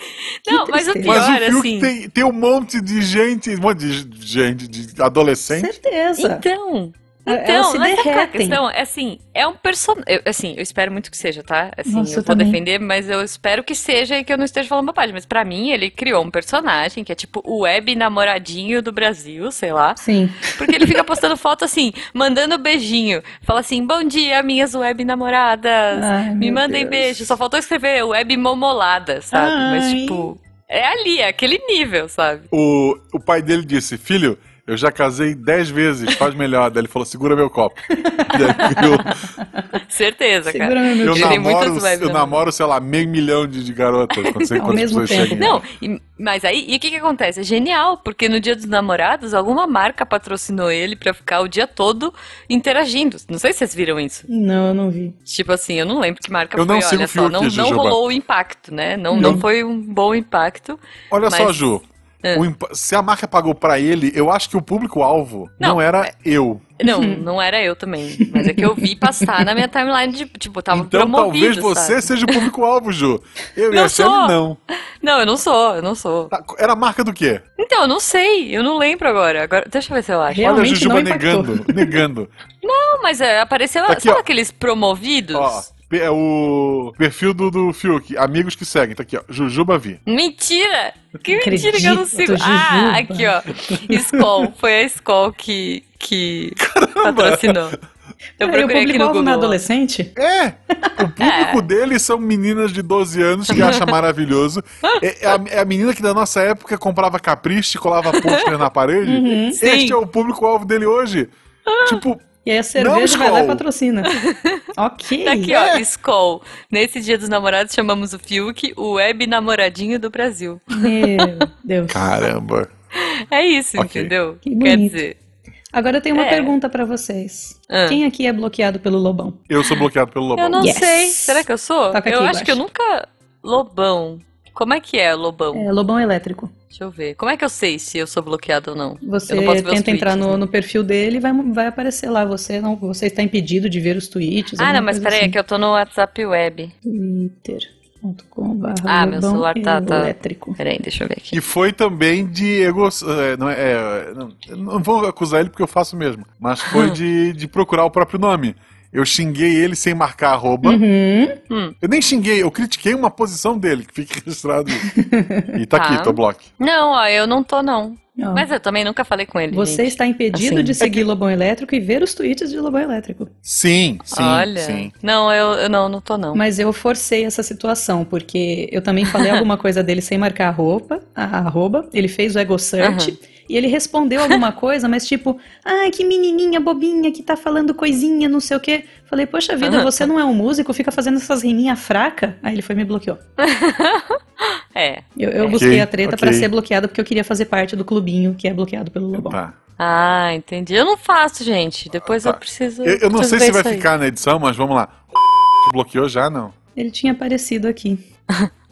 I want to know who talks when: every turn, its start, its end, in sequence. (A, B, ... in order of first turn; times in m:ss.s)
0:00.5-0:01.9 A
0:00.5-0:01.2 B
0:01.0-0:05.7 C
0:05.5-0:06.4 B
0:06.2-0:32.5 A
0:07.3-0:08.6 B
0:11.9-0:12.6 B
0:20.0-0:21.0 B
0:25.9-0:27.3 B
0:29.3-0:30.3 B
0:32.5-0:39.2 C
0:37.9-0:39.8 B
0:39.8-0:42.4 A
0:40.5-0:41.4 B
0:41.0-0:45.6 C
0:44.2-0:54.3 A
0:44.6-0:45.6 B
0:54.3-0:55.2 B
0:55.3-1:01.6 A
0:56.6-0:58.0 C
0:59.1-0:59.4 B
1:01.1-1:06.7 C
1:05.6-1:06.1 A
1:06.8-1:12.5 A
1:06.8-1:07.2 B
1:08.2-1:09.5 B
1:10.7-1:14.6 C
1:13.7-1:14.4 A
1:15.0-1:16.3 A
1:16.3-1:17.4 C
1:17.6-1:20.6 A
1:20.3-1:22.0 B
1:20.4-1:22.3 C
1:22.6-1:25.6 A
1:23.9-1:24.2 C
1:25.3-1:30.0 C
1:30.1-1:37.8 A
1:31.3-1:34.0 B
1:36.6-1:37.8 C
1:38.4-1:40.1 B
1:38.4-1:39.6 A
1:40.2-1:51.3 C
1:41.2-1:41.6 A
1:43.5-1:43.9 A
1:48.1-1:48.5 A
1:49.0-1:49.6 B
1:49.6-1:50.0 A
1:51.7-1:52.0 A
1:51.8-1:52.2 C
1:52.4-1:54.1 B
1:52.8-1:53.6 C
1:54.1-1:54.6 A
1:54.8-1:55.6 B
1:55.2-2:01.4 A
2:00.7-2:02.2 B
2:01.9-2:02.7 C
2:03.0-2:05.2 A
2:03.8-2:04.1 C
2:04.4-2:05.0 B
2:05.7-2:09.4 B
2:06.1-2:06.6 A
2:07.7-2:08.0 A
2:09.5-2:10.8 C
2:10.4-2:15.7 A
2:10.6-2:12.6 B
2:15.5-2:16.5 B
2:16.7-2:20.4 A
2:19.0-2:25.4 B
2:24.6-2:26.7 A
2:26.8-2:30.6 B
2:28.9-2:31.4 A
2:31.3-2:40.8 C
2:36.7-2:37.0 A
2:40.6-2:41.4 B
2:41.5-2:41.8 A
2:41.8-2:44.9 C
2:44.8-2:45.6 B
2:45.6-2:46.5 C
2:45.7-2:50.9 A
2:48.2-2:48.5 B
2:49.5-2:53.3 B
2:53.4-2:54.9 C
2:54.1-2:56.4 A
2:56.3-3:13.2 B
2:59.1-2:59.4 A
3:02.8-3:03.2 A
3:09.6-3:10.1 A
3:13.4-3:15.6 A
3:15.2-3:19.4 B
3:15.5-3:16.5 C
3:19.1-3:19.6 C
3:19.8-3:23.9 A
3:22.0-3:26.6 C
3:26.8-3:28.0 B